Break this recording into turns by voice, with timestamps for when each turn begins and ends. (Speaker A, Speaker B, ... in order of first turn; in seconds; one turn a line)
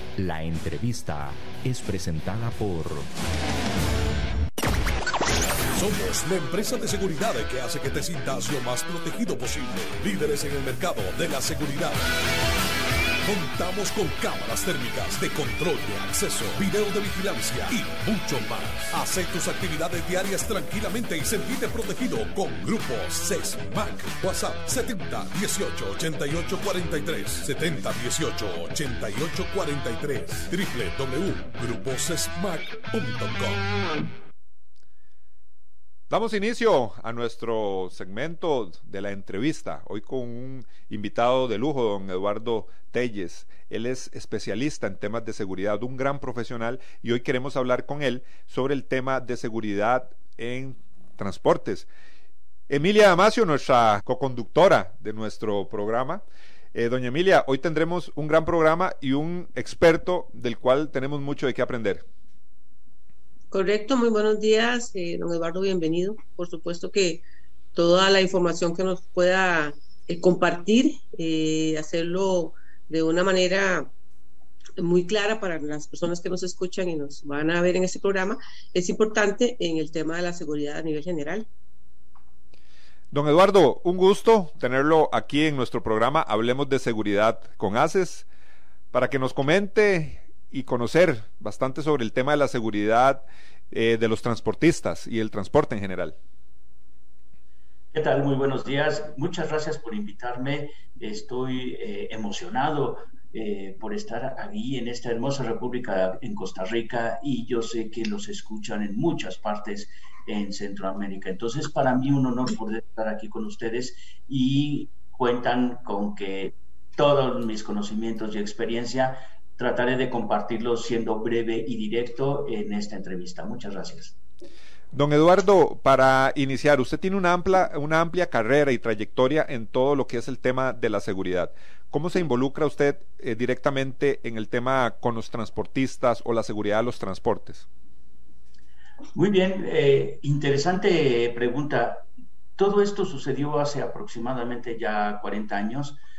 Speaker A: 0.2-3.1
Speaker B: 5.7-12.1
Speaker B: 13.2-33.6
Speaker C: 36.1-51.9
Speaker C: 52.7-62.0
Speaker D: 63.5-67.2
Speaker D: 67.7-73.9
Speaker D: 74.8-81.5
Speaker C: 83.1-88.2
Speaker C: 88.9-96.2
Speaker E: 97.9-124.2
Speaker C: 124.9-137.7
Speaker E: 139.1-142.0
Speaker E: 142.6-146.0